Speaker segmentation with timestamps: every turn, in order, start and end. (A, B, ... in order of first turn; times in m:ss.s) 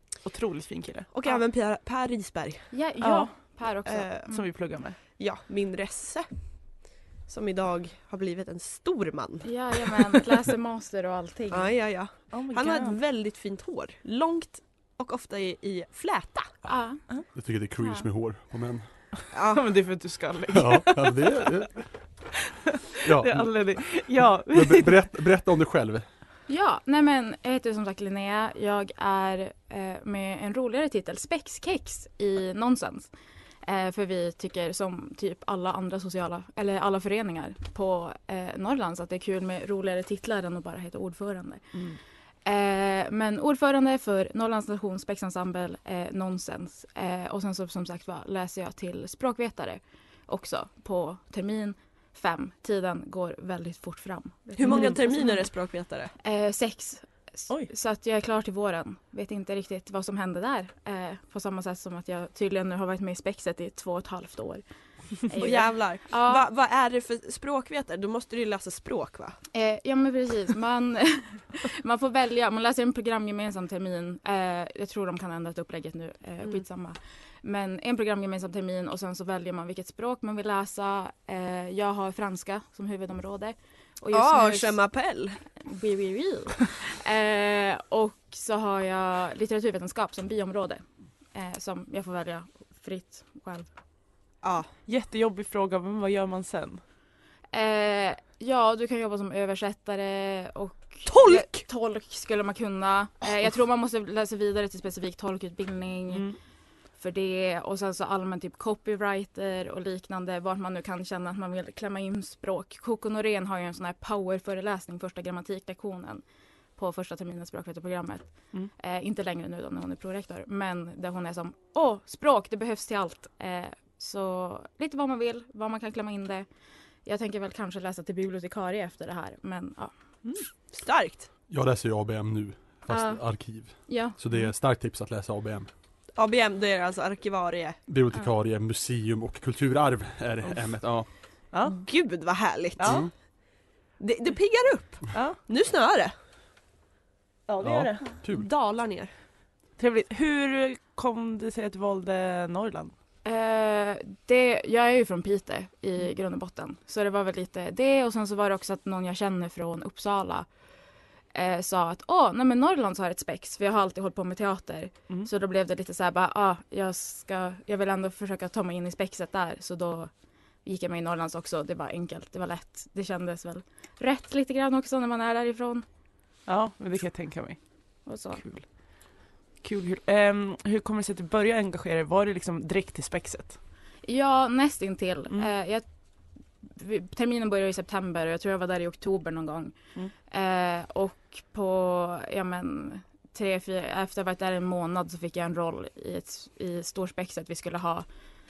0:00.2-0:01.1 A
0:01.1-0:02.7 B
0:02.7-0:04.5 C
0:03.0-0:03.3 A
0:03.8-0:04.3 B
0:04.3-0:05.0 A
0:05.2-0:06.4 B
0:07.3-0:10.2 B
0:09.4-0:11.8 C
0:11.5-0:16.5 B
0:12.3-0:13.0 A
0:16.6-0:17.0 C
0:17.4-0:18.8 D
0:19.3-0:19.7 B
0:19.5-0:21.4 A
0:20.5-0:21.9 D
0:23.0-0:25.0 A
0:23.0-0:26.1 D
0:26.5-0:33.1 C
0:33.6-0:41.6 C
0:42.4-0:55.4 C
0:54.6-0:56.1 B
0:54.7-0:55.0 A
0:56.2-1:04.6 C
1:05.3-1:06.4 C
1:05.4-1:09.4 B
1:09.5-1:24.8 C
1:24.1-1:25.4 B
1:25.6-1:30.8 C
1:31.3-1:33.7 C
1:34.4-1:34.7 B
1:34.9-1:36.8 A
1:37.5-1:46.3 C
1:41.1-1:41.6 B
1:46.1-1:46.4 A
1:47.0-1:56.2 C
1:56.8-2:06.5 C
2:07.0-2:09.9 C
2:10.7-2:11.3 B
2:11.5-2:15.7 D
2:12.9-2:13.2 C
2:13.9-2:14.2 C
2:16.2-2:17.8 B
2:17.9-2:21.1 D
2:21.5-2:21.8 A
2:21.7-2:23.1 B
2:22.8-2:23.0 A
2:22.8-2:23.1 D
2:24.0-2:26.1 B
2:25.1-2:25.4 A
2:27.5-2:28.1 A
2:27.6-2:28.5 D
2:28.3-2:29.1 B
2:29.8-2:32.9 A
2:33.2-2:40.5 C
2:41.3-2:50.1 C
2:50.6-2:55.9 C
2:56.5-2:57.6 A
2:58.1-2:58.4 C
2:58.4-2:58.7 A
2:59.6-3:03.6 A
3:04.0-3:05.9 C
3:06.6-3:09.8 C
3:10.3-3:18.1 C